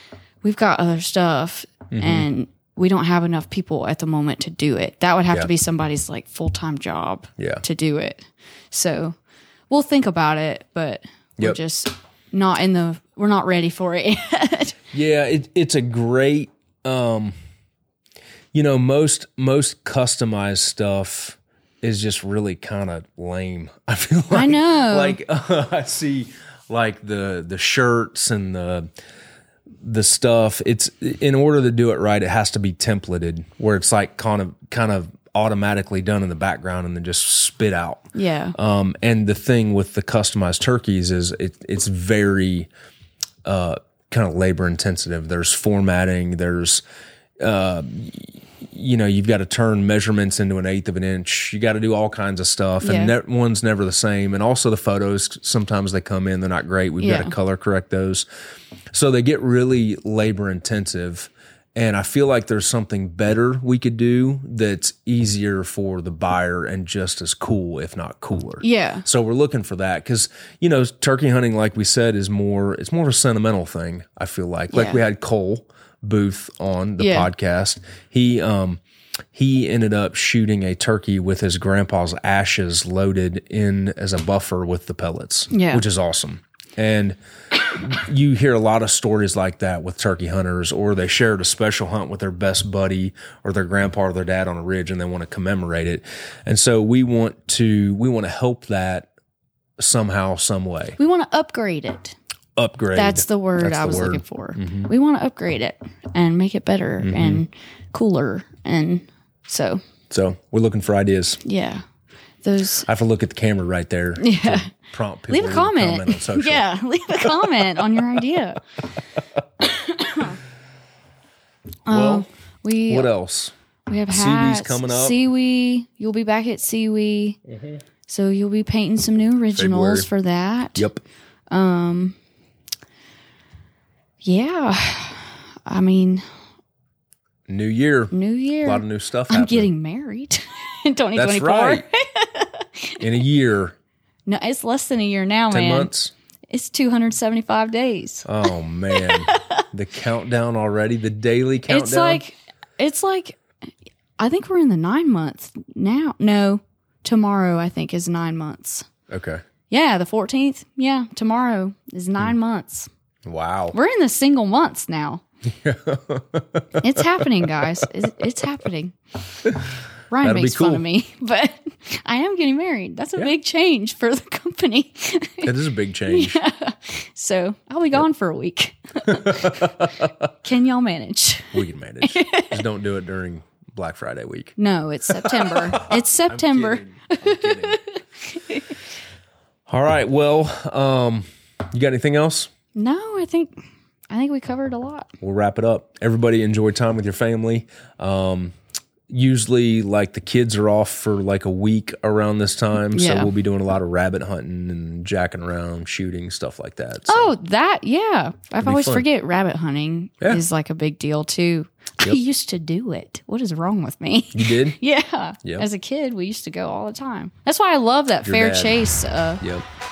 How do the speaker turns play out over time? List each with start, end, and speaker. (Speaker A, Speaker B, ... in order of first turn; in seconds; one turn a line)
Speaker A: 0.4-9.2
Speaker B: 1.9-2.3
Speaker B: 7.4-7.6
Speaker A: 9.7-14.8
Speaker B: 14.9-17.4
Speaker B: 18.5-28.9
Speaker A: 24.3-25.2
Speaker B: 29.8-42.7
Speaker A: 38.1-38.6
Speaker B: 43.4-46.8
Speaker B: 47.4-58.3
Speaker A: 52.8-53.1
Speaker A: 57.0-57.3
Speaker B: 58.9-78.8
Speaker A: 68.6-69.0
Speaker A: 74.7-75.0
Speaker A: 77.0-77.3
Speaker B: 79.3-87.2
Speaker A: 85.5-85.8
Speaker B: 87.7-99.1
Speaker B: 99.8-101.0
Speaker A: 101.0-102.2
Speaker B: 102.6-104.9
Speaker A: 103.0-109.8
Speaker B: 107.0-107.5
Speaker B: 110.1-111.4
Speaker A: 111.4-111.8
Speaker A: 112.4-112.9
Speaker B: 112.8-116.7
Speaker A: 114.2-114.7
Speaker A: 115.3-118.6
Speaker B: 117.2-118.2
Speaker A: 119.6-120.4
Speaker A: 121.9-123.1
Speaker B: 121.9-122.3
Speaker B: 122.9-123.5
Speaker A: 123.9-127.4
Speaker B: 124.1-125.2
Speaker A: 128.1-130.9
Speaker B: 129.6-130.1
Speaker B: 130.8-131.0
Speaker A: 131.5-132.2
Speaker A: 134.2-136.2
Speaker B: 137.5-139.7
Speaker A: 138.1-143.0
Speaker B: 141.2-141.8
Speaker B: 143.0-143.8
Speaker A: 144.3-145.9
Speaker B: 145.5-146.1
Speaker A: 146.5-148.3
Speaker B: 148.2-152.2
Speaker A: 148.9-149.6
Speaker A: 151.7-153.4
Speaker A: 154.2-158.9
Speaker B: 159.1-159.4
Speaker A: 159.7-162.9
Speaker B: 163.2-163.8
Speaker A: 163.7-165.2
Speaker B: 165.5-167.9
Speaker A: 166.8-169.0
Speaker B: 169.4-169.7
Speaker A: 170.1-175.5
Speaker B: 170.2-170.8
Speaker B: 175.4-176.4
Speaker A: 176.1-179.8
Speaker B: 179.1-180.1
Speaker A: 180.4-182.6
Speaker B: 181.5-184.6
Speaker A: 184.6-188.8
Speaker B: 185.1-187.8
Speaker B: 189.7-192.5
Speaker A: 192.8-193.6
Speaker A: 194.1-195.1
Speaker B: 195.2-198.6
Speaker B: 199.1-207.3
Speaker A: 202.9-203.3
Speaker A: 207.1-219.4
Speaker B: 208.6-209.1
Speaker B: 214.3-214.8
Speaker B: 218.2-218.7